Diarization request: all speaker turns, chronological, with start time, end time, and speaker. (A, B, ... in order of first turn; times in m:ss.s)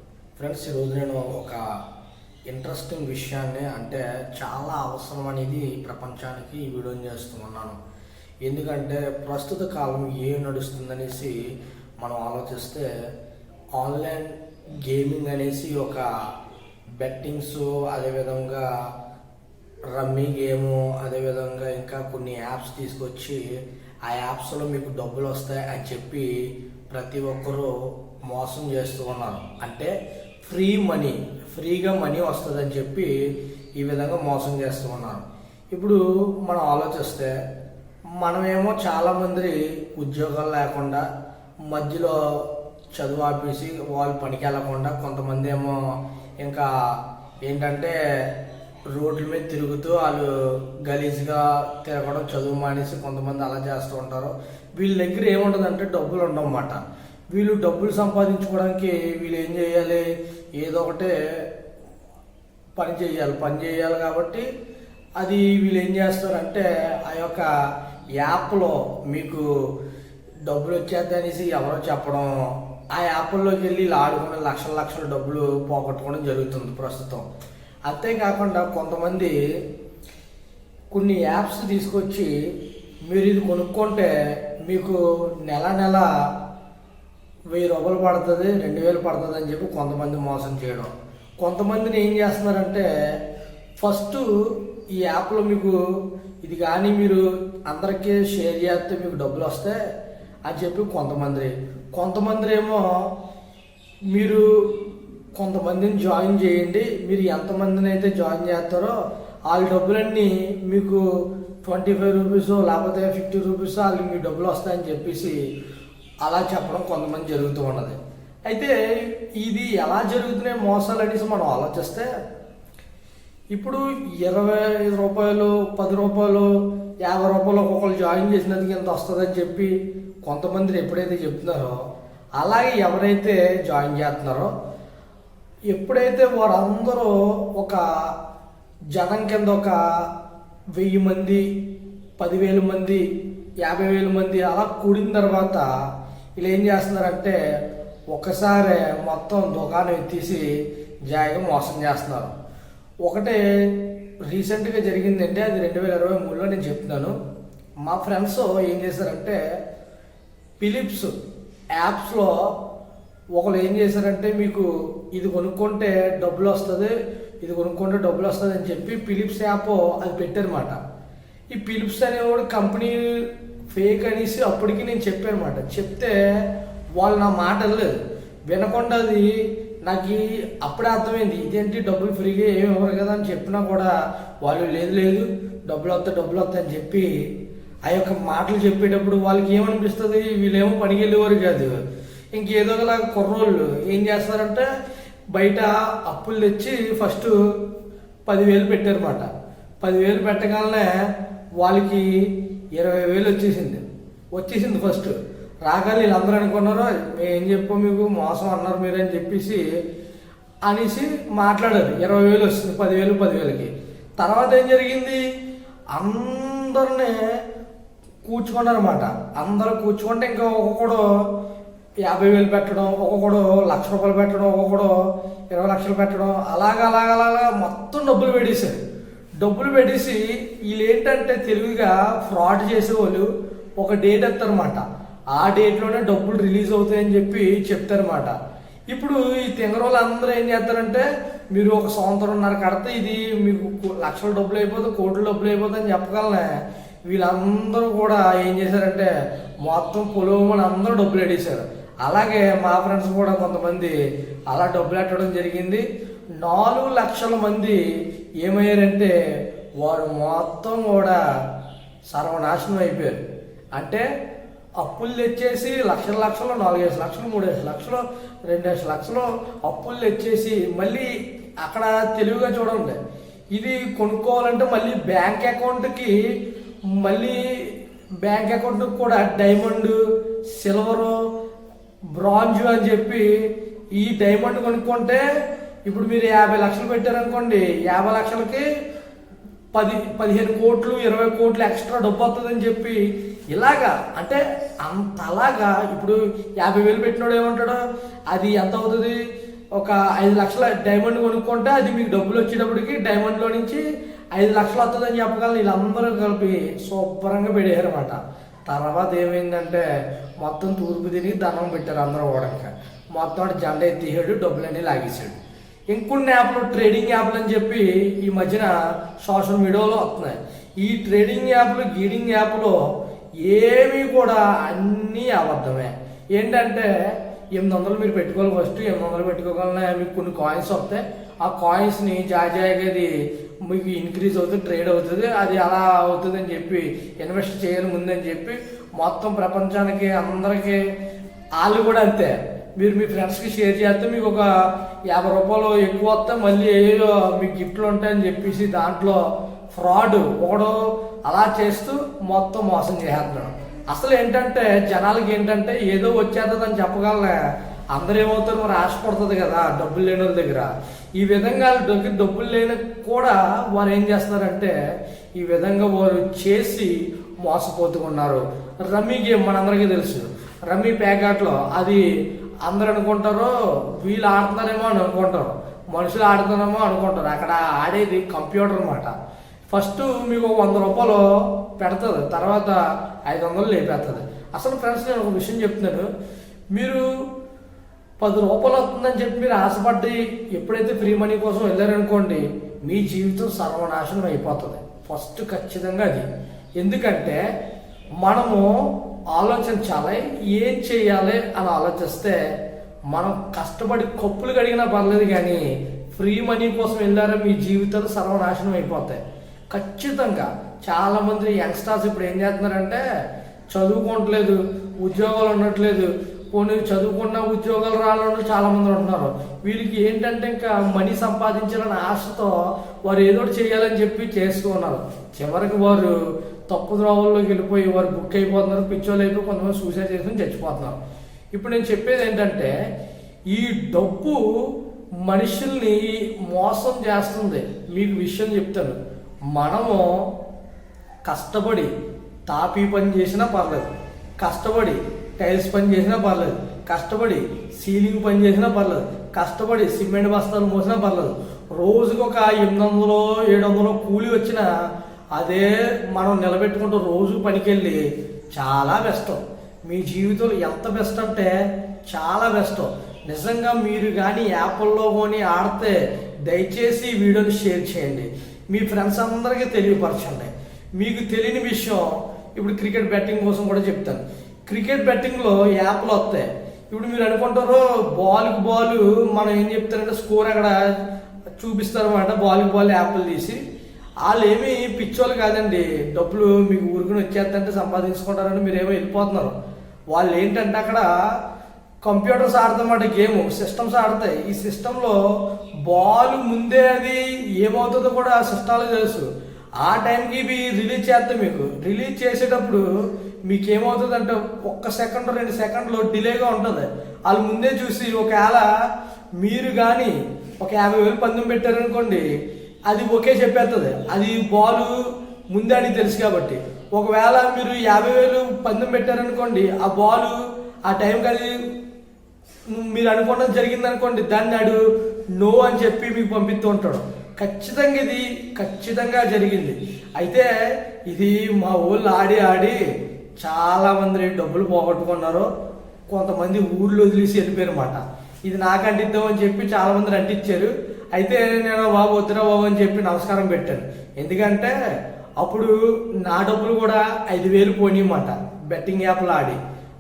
0:00.4-0:01.6 A
0:02.5-0:07.8 A
0:08.5-0:11.4 A
0:12.0-0:12.9 A
0:13.8-0:16.1 A
0:16.9-0:18.7 A
0:19.9-0:23.4 A
0:24.1-0:27.7 A
0:28.3-0:33.1 A
0:33.8-0:37.3 A
0:38.2-0:41.0 A
0:41.7-0:42.4 A
0:42.9-0:45.8 A
0:46.4-0:46.7 A
0:47.4-0:48.0 A
0:48.9-0:50.3 A
0:50.8-1:00.0 A
1:00.6-1:01.5 A
1:02.8-1:04.5 A
1:05.2-1:07.5 A
1:08.2-1:09.4 A
1:10.5-1:17.3 A
1:17.9-1:19.4 A
1:20.9-1:22.3 A
1:23.1-1:24.1 A
1:24.6-1:26.1 A
1:27.5-1:32.9 A
1:33.8-1:35.8 A
1:36.4-1:39.8 A
1:40.5-1:43.1 A
1:44.1-1:49.0 A
1:49.5-1:51.0 A
1:51.6-1:55.4 A
1:56.2-1:58.7 A
1:59.4-2:02.1 A
2:03.5-2:11.9 A
2:12.4-2:14.5 A
2:15.7-2:18.1 A
2:18.9-2:20.0 A
2:20.8-2:21.5 A
2:22.2-2:23.0 A
2:23.6-2:25.7 A
2:26.4-2:27.4 A
2:28.1-2:30.5 A
2:31.1-2:32.3 A
2:33.0-2:37.1 A
2:37.8-2:39.4 A
2:40.6-2:41.1 A
2:41.8-2:42.4 A
2:43.4-2:50.8 A
2:51.5-2:53.1 A
2:53.7-2:56.2 A
2:57.0-2:58.0 A
2:58.5-2:59.3 A
2:59.8-3:03.9 A
3:04.4-3:07.1 A
3:07.9-3:11.8 A
3:12.3-3:14.7 A
3:15.3-3:17.4 A
3:18.3-3:19.3 A
3:19.8-3:22.1 A
3:22.8-3:29.6 A
3:30.7-3:35.2 A
3:35.9-3:37.2 A
3:38.2-3:41.0 A
3:42.0-3:45.0 A
3:45.5-3:48.8 A
3:49.4-3:54.8 A
3:55.3-3:58.4 A
3:58.9-4:06.5 A
4:07.1-4:09.1 A
4:09.6-4:13.9 A
4:14.5-4:15.8 A
4:16.4-4:17.8 A
4:18.4-4:19.1 A
4:19.8-4:21.2 A
4:22.1-4:23.2 A
4:23.8-4:24.0 A
4:24.8-4:31.1 A
4:31.6-4:33.0 A
4:33.6-4:36.2 A
4:37.0-4:37.7 A
4:38.2-4:40.0 A
4:40.5-4:41.2 A
4:42.1-4:43.3 A
4:44.0-4:45.2 A
4:45.9-4:48.6 A
4:49.7-4:53.0 A
4:53.5-4:59.2 A
4:59.8-5:03.8 A
5:04.4-5:09.8 A
5:10.4-5:15.4 A
5:15.9-5:22.8 A
5:23.4-5:33.1 A
5:33.6-5:40.8 A
5:41.6-5:44.5 A
5:45.1-5:57.4 A
5:57.9-6:04.7 A
6:05.4-6:12.0 A
6:12.6-6:19.1 A
6:19.7-6:21.2 A
6:21.8-6:26.1 A
6:26.7-6:27.0 A
6:28.2-6:36.3 A
6:36.8-6:37.4 A
6:38.2-6:42.4 A
6:43.1-6:49.2 A
6:49.7-6:53.0 A
6:53.7-7:06.1 A
7:06.7-7:11.0 A
7:11.5-7:12.7 A
7:13.5-7:14.7 A
7:15.2-7:19.0 A
7:19.5-7:20.3 A
7:21.2-7:21.9 A
7:22.5-7:34.7 A
7:35.4-7:38.0 A
7:38.5-7:41.5 A
7:42.1-7:46.0 A
7:46.5-8:00.8 A
8:01.6-8:03.6 A
8:04.2-8:09.6 A
8:10.1-8:11.1 A
8:12.0-8:15.2 A
8:15.8-8:19.3 A
8:19.8-8:22.8 A
8:23.5-8:28.6 A
8:29.4-8:32.2 A
8:32.9-8:34.9 A
8:35.5-8:41.6 A
8:42.7-8:44.8 A
8:45.4-8:50.5 A
8:51.1-8:52.8 A
8:53.4-8:55.5 A
8:56.1-9:04.7 A
9:05.4-9:09.6 A